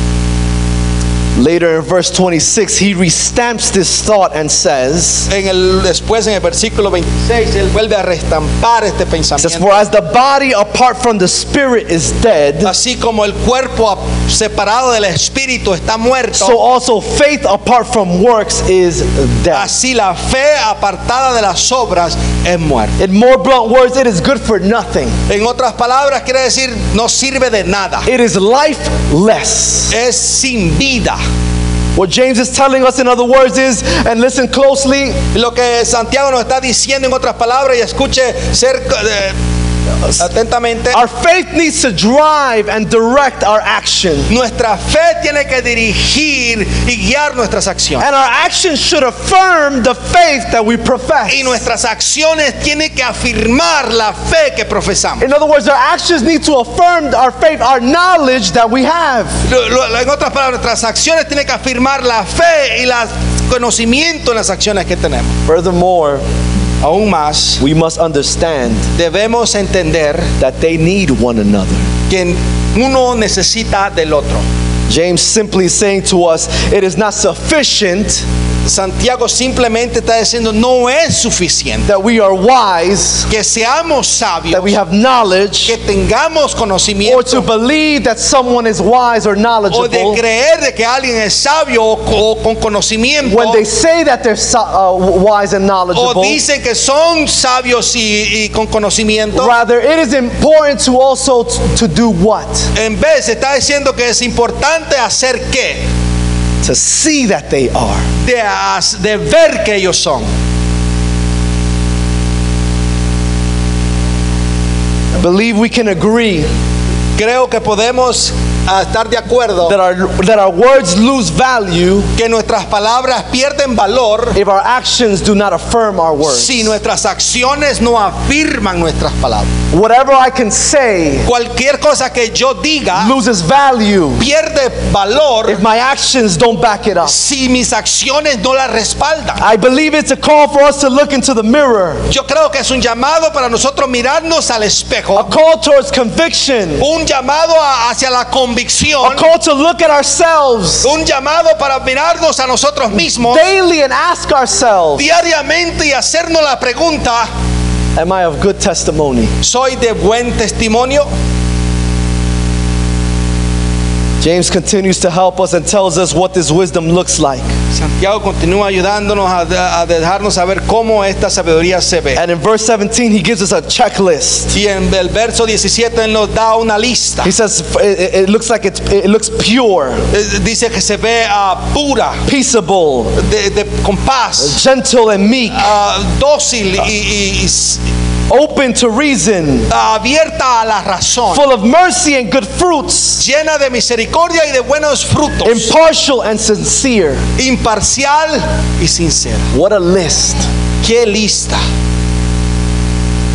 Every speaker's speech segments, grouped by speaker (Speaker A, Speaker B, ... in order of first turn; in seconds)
Speaker A: 1.4-5.3, 9.4-12.7, 16.3-19.7, 23.0-25.1, 28.1-29.9, 31.9-35.2, 40.9-44.3, 48.0-51.6, 55.2-59.3, 65.5-66.2, 67.6-68.8, 70.4-71.9, 74.9-78.2, 81.8-83.3, 84.5-85.7, 87.0-90.2, 93.2-96.4, 99.3-102.7, 106.6-108.0, 115.2-116.5, 119.6-122.1, 124.3-126.7, 129.7-131.3, 132.9-134.2, 135.5-137.2, 139.4-142.0, 145.1-146.8, 149.0-150.9, 153.1-155.1, 157.9-159.3, 164.2-167.5, 172.1-174.5, 177.2-180.0, 182.2-183.1, 184.4-185.7, 188.3-189.7, 191.3-193.2, 195.4-197.2, 199.5-200.5
Speaker B: 5.3-9.8, 12.6-16.6, 19.5-22.9, 25.3-28.1, 29.9-31.2, 35.3-39.3, 40.2-41.0, 44.3-48.0, 51.3-55.2, 59.5-65.3, 66.8-67.6, 69.0-70.3, 72.1-74.4, 78.7-81.9, 83.3-84.8, 85.7-87.5, 89.7-93.6, 95.9-99.5, 102.7-105.8, 108.2-110.3, 117.2-119.8, 122.2-124.4, 126.2-129.5, 131.2-133.1, 134.2-135.6, 137.0-139.4, 142.1-145.3, 146.8-149.2, 150.8-153.5, 155.0-157.3, 159.4-161.1, 167.7-172.2, 174.5-177.3, 180.1-182.2, 183.2-184.6, 185.5-187.8, 189.7-191.4, 193.2-195.7, 197.4-199.5, 200.8-201.6